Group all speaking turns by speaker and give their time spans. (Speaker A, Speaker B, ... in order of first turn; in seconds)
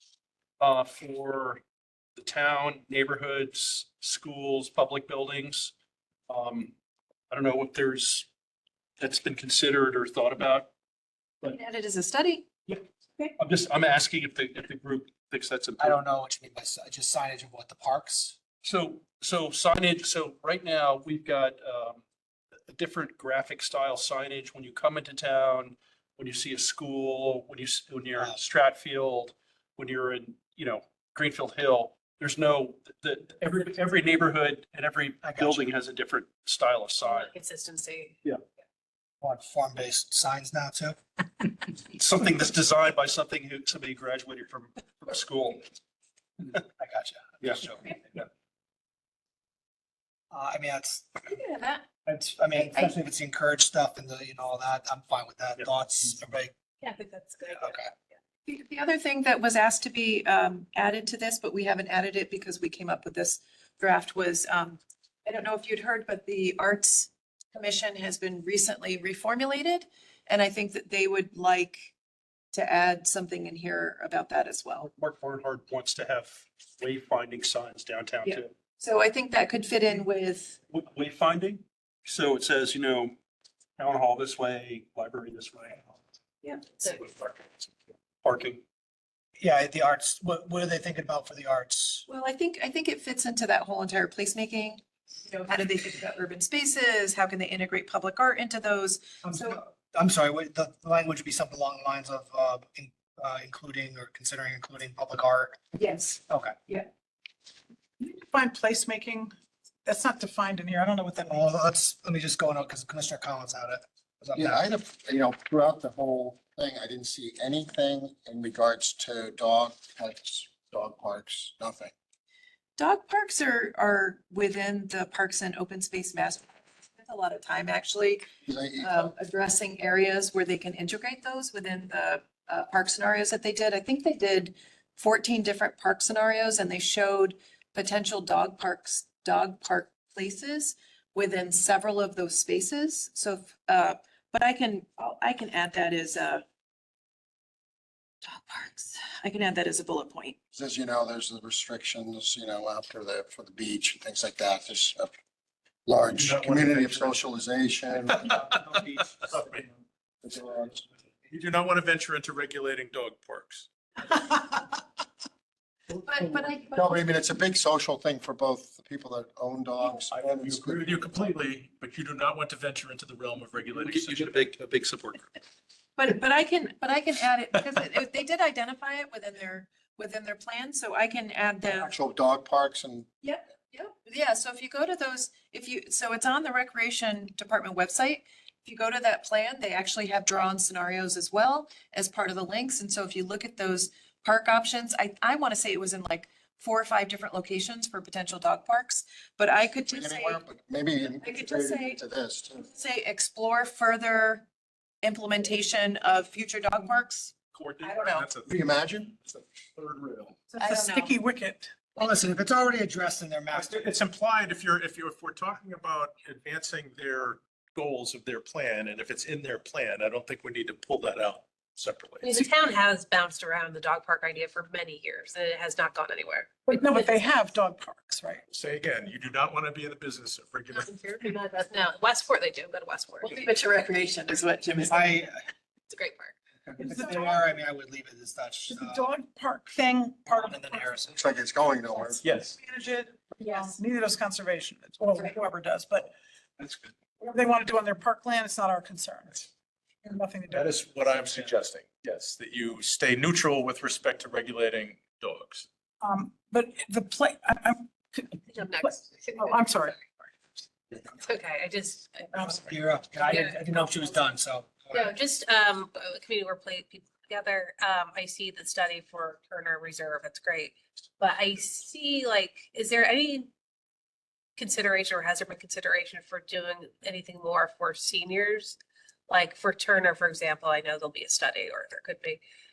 Speaker A: 0.6-1.6, 2.2-5.7, 6.3-6.7, 7.3-8.3, 9.0-10.7, 13.4-16.0, 18.6-22.0, 22.7-37.3, 41.8-45.7, 74.8-78.5, 80.7-83.2, 83.8-85.9, 86.8-87.7, 88.2-88.6, 173.8-175.3
Speaker B: 11.4-12.5, 51.2-51.9, 52.5-52.9, 58.5-71.9, 72.5-74.9, 78.2-80.6, 92.1-99.6, 105.7-106.9, 122.8-146.4, 148.2-150.4, 165.9-167.0, 176.0-181.9, 183.2-200.4, 201.2-202.0, 202.6-204.4, 205.0-208.3, 210.5-211.2, 233.2-235.1
Speaker C: 15.8-18.4, 35.2-35.7, 39.2-41.0, 46.5-47.9, 50.3-51.2, 52.0-56.5, 57.5-57.9, 89.4-92.0, 99.2-105.6, 106.3-106.5, 111.2-114.6, 158.2-159.6, 211.9-213.9, 234.8-235.4, 236.7-239.1, 240.3-241.2, 262.5-265.1
Speaker D: 37.0-38.1, 56.8-57.9, 222.2-227.3, 230.7-233.4, 235.9-236.3, 243.4-243.7, 258.5-259.9, 261.1-262.6, 263.2-263.9, 264.9-273.5, 274.6-278.8, 279.3-282.4
Speaker E: 108.0-109.3, 109.8-111.4, 210.6-211.7, 226.7-228.4, 236.8-237.4, 238.7-240.6, 241.9-246.1, 247.2-249.5, 250.0-251.0, 256.0-260.2, 262.3-262.6
Speaker F: 114.3-121.9, 128.4-129.1, 150.5-155.1, 155.8-158.3, 160.2-160.8, 166.7-171.3, 181.8-183.1, 199.9-202.7, 208.4-209.1, 241.1-242.2
Speaker G: 156.1-157.2, 159.1-159.6, 161.3-163.7, 170.0-174.6, 207.5-208.6, 209.1-210.4, 213.5-222.3, 228.5-230.9, 242.2-242.6, 246.6-246.9, 250.5-255.7